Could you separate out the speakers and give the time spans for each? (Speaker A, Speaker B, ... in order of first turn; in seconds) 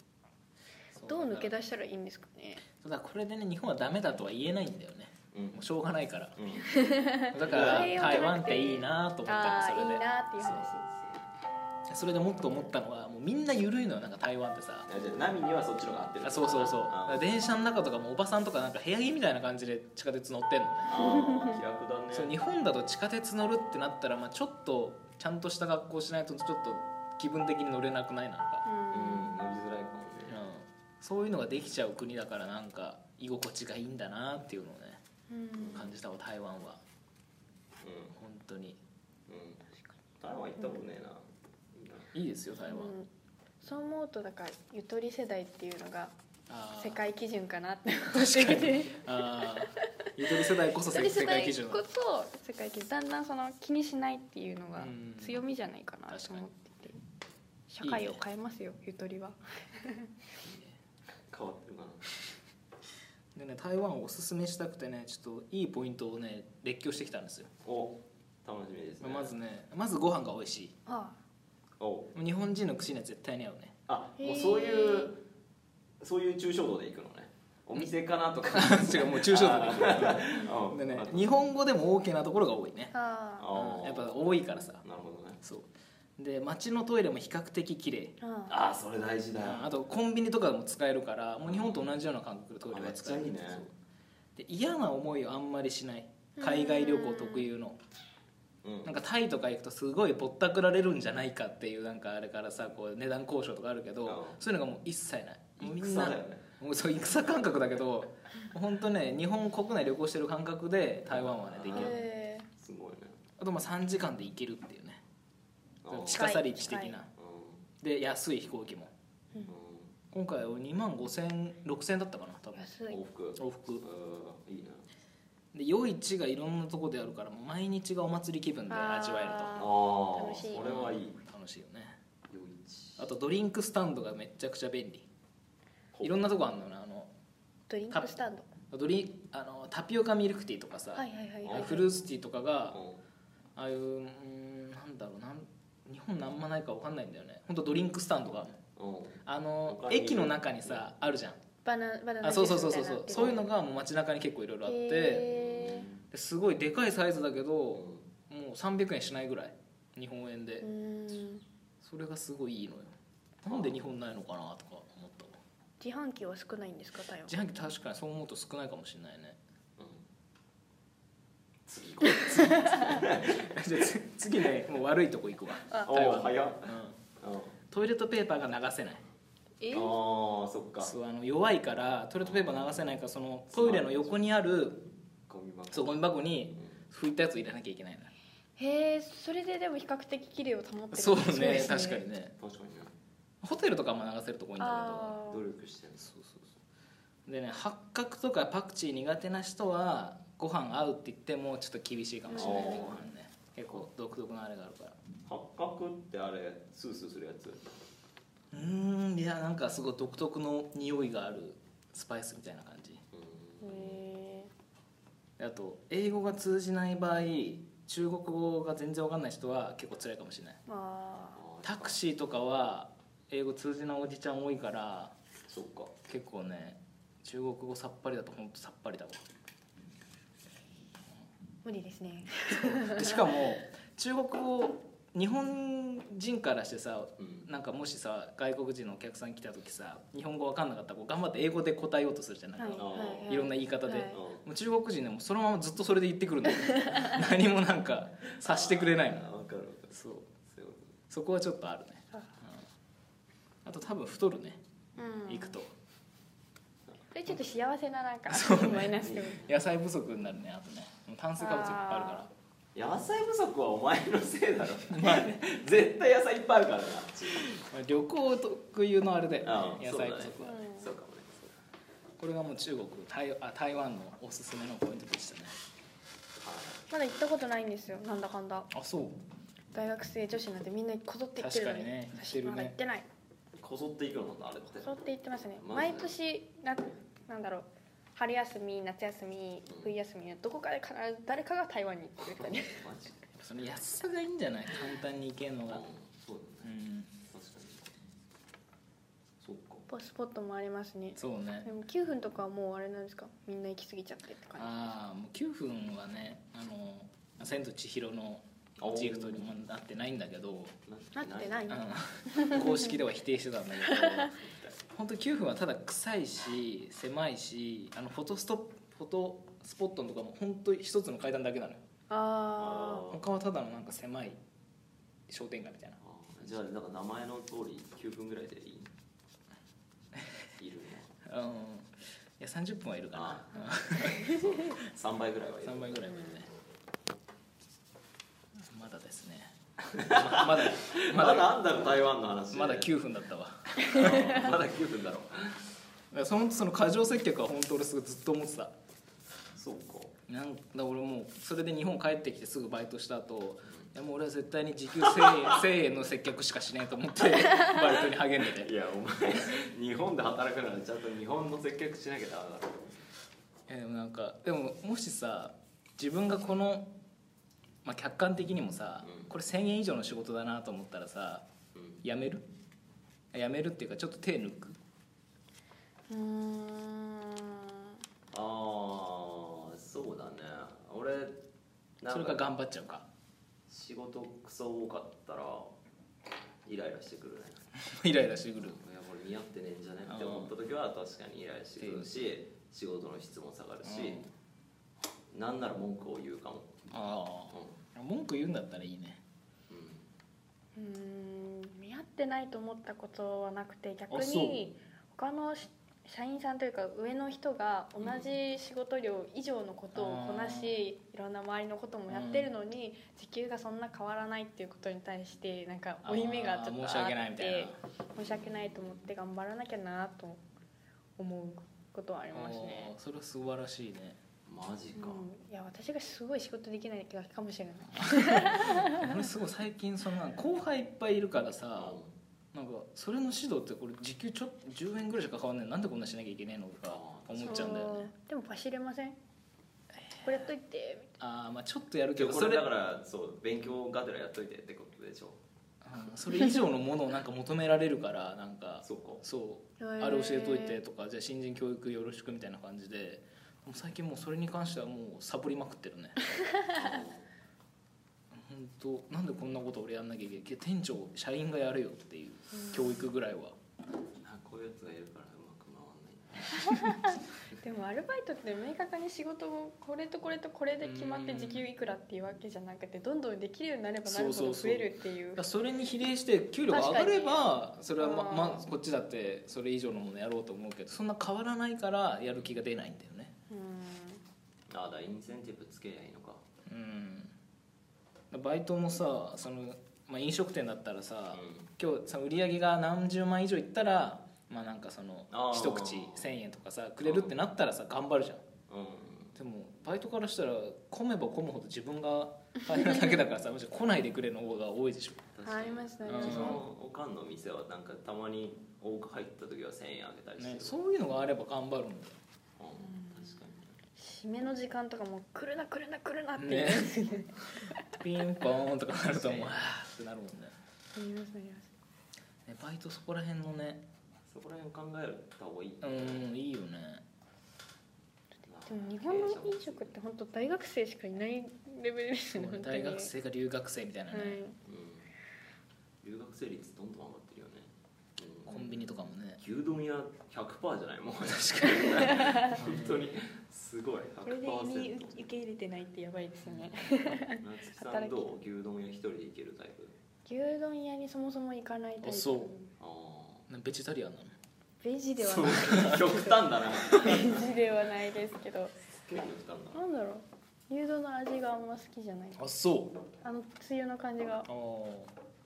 Speaker A: 0.9-1.5, 2.8-6.3, 7.3-10.7, 11.9-14.9, 16.2-21.0, 22.1-28.7, 30.3-35.0, 35.7-36.8, 38.1-38.8, 42.1-42.9, 46.5-47.0, 48.1-51.8, 54.8-55.4, 56.1-56.5, 57.8-58.2, 60.4-60.8, 63.4-67.5, 69.0-70.7, 72.2-73.8, 78.5-82.9, 83.5-84.8, 85.4-85.7, 86.2-88.2, 89.4-93.7, 94.4-97.8, 98.8-112.0, 113.4-115.0, 115.9-117.1, 117.8-118.9, 120.1-122.8, 123.4-123.8, 125.5-129.6, 130.6-132.0, 133.0-135.1, 136.0-137.1, 138.7-142.8, 143.6-148.6, 149.2-151.4, 152.2-155.3, 156.1-160.7, 161.8-165.4, 167.3-169.4, 172.3-177.0, 177.7-179.0, 180.8-184.8, 185.7-188.1, 190.9-192.3, 193.4-195.2, 196.0-196.5, 197.3-205.0, 208.5-213.0, 215.4-220.6, 221.6-225.1, 226.1-229.2, 232.5-249.3, 249.9-250.3, 251.1-252.7, 253.7-254.6, 255.3-255.7, 258.3-262.3, 264.9-265.4, 267.5-270.6, 272.2-275.6, 278.7-279.2, 281.4-282.8, 293.4-295.8, 296.6-297.1, 301.2-301.7, 304.6-310.8, 311.7-321.8, 323.1-324.4, 325.3-326.0, 331.2-334.7, 335.6-336.5, 338.7-341.9, 342.5-344.5, 346.1-348.7, 350.3-358.7, 363.7-366.9, 367.9-371.5, 372.0-372.4, 373.3-374.8, 382.1-383.1, 387.8-388.8, 390.1-390.5, 391.8-392.1, 393.8-394.3, 396.9-399.2, 404.1-404.7, 409.9-410.8, 412.1-412.5, 416.0-417.8, 422.3-424.2, 428.0-432.0, 432.5-438.1, 440.1-440.5, 441.2-442.6, 445.8-456.3, 458.3-463.6, 470.8-471.6, 474.1-483.3, 486.7-487.3, 488.3-498.4, 499.4-505.2, 506.1-506.6, 510.4-512.2, 516.4-517.0, 517.8-520.5, 522.5-523.8, 525.8-527.0, 532.3-534.4, 538.5-539.4, 541.6-543.0, 546.4-546.7, 552.0-552.5, 553.5-554.3, 555.5-556.0, 562.4-563.0, 564.5-565.1
Speaker B: 1.1-2.6, 6.7-10.8, 21.0-21.6, 28.6-29.3, 35.3-35.9, 42.7-43.1, 43.6-46.1, 46.7-49.1, 50.9-57.0, 57.7-60.1, 70.9-71.2, 74.2-75.1, 80.3-80.6, 82.9-83.5, 88.2-88.6, 96.4-97.5, 111.7-112.5, 116.1-117.0, 122.6-123.0, 128.7-130.8, 137.7-138.5, 140.9-141.8, 151.7-153.4, 154.6-155.9, 160.6-161.4, 165.8-167.3, 179.6-180.0, 188.6-192.0, 194.6-195.4, 202.3-202.9, 213.6-214.5, 220.7-221.4, 231.6-233.3, 242.6-244.2, 246.6-247.2, 255.0-255.6, 257.1-259.5, 261.4-262.3, 270.4-270.9, 276.9-278.7, 279.7-283.1, 284.8-292.8, 299.9-304.9, 311.1-312.8, 313.9-314.2, 322.1-323.1, 334.2-334.4, 376.1-378.0, 400.8-420.4, 421.2-422.9, 424.9-429.2, 437.4-439.2, 440.2-441.1, 449.8-450.8, 462.6-463.1, 466.6-475.4, 476.7-478.7, 483.5-484.2, 505.4-506.6, 512.8-513.4, 514.0-517.8, 520.9-521.7, 528.7-533.1, 534.1-534.6, 544.2-548.4, 550.3-552.7, 554.8-558.8, 559.7-562.4, 563.2-564.5
Speaker C: 5.3-5.7, 6.4-6.8, 7.4-8.3, 10.7-11.2, 14.9-17.3, 20.9-22.3, 28.9-30.4, 35.6-36.0, 37.8-38.1, 39.3-39.6, 40.2-42.1, 61.3-62.0, 67.7-69.3, 71.8-72.1, 73.9-75.2, 76.0-81.3, 83.4-84.2, 84.8-85.4, 88.5-89.7, 91.5-91.9, 92.7-93.7, 98.6-99.0, 104.0-104.4, 105.6-106.5, 111.1-112.0, 112.6-113.2, 115.8-116.3, 117.2-117.6, 119.5-119.9, 122.9-124.9, 129.6-131.2, 132.3-133.1, 135.9-136.3, 141.4-142.0, 142.7-143.0, 148.8-150.9, 153.1-153.4, 155.3-156.0, 157.8-158.1, 163.5-163.8, 171.7-173.3, 175.9-177.6, 179.7-180.9, 182.2-183.0, 183.5-184.2, 185.3-186.8, 192.4-192.9, 195.3-196.1, 202.4-203.1, 205.3-207.6, 213.1-214.0, 221.4-222.0, 225.5-225.9, 237.2-237.5, 242.8-243.4, 244.1-244.4, 248.4-250.9, 258.9-259.5, 262.8-267.6, 269.4-271.5, 276.4-276.9, 283.6-284.9, 285.6-286.1, 292.4-293.2, 295.7-296.7, 297.3-297.9, 299.4-299.9, 308.8-309.5, 310.9-311.8, 314.4-314.8, 322.6-323.2, 326.0-328.9, 330.6-331.1, 333.1-336.5, 339.9-342.9, 343.9-345.6, 349.6-350.1, 358.4-363.0, 369.0-369.3, 371.8-372.0, 378.3-381.4, 382.0-382.5, 383.7-385.8, 386.6-387.6, 388.6-394.2, 395.3-396.8, 397.5-397.8, 399.7-400.1, 408.0-408.4, 418.2-419.1, 424.5-425.2, 431.8-432.1, 436.9-437.8, 442.2-445.4, 448.8-449.2, 456.8-457.2, 464.2-466.9, 484.7-486.4, 491.3-491.7, 495.3-496.3, 497.0-497.3, 498.7-499.4, 505.4-510.8, 512.6-513.8, 519.0-519.5, 524.3-526.3, 528.5-530.0, 534.6-535.1, 536.0-545.2, 547.4-549.9, 552.8-553.5, 555.2-557.7, 559.0-559.8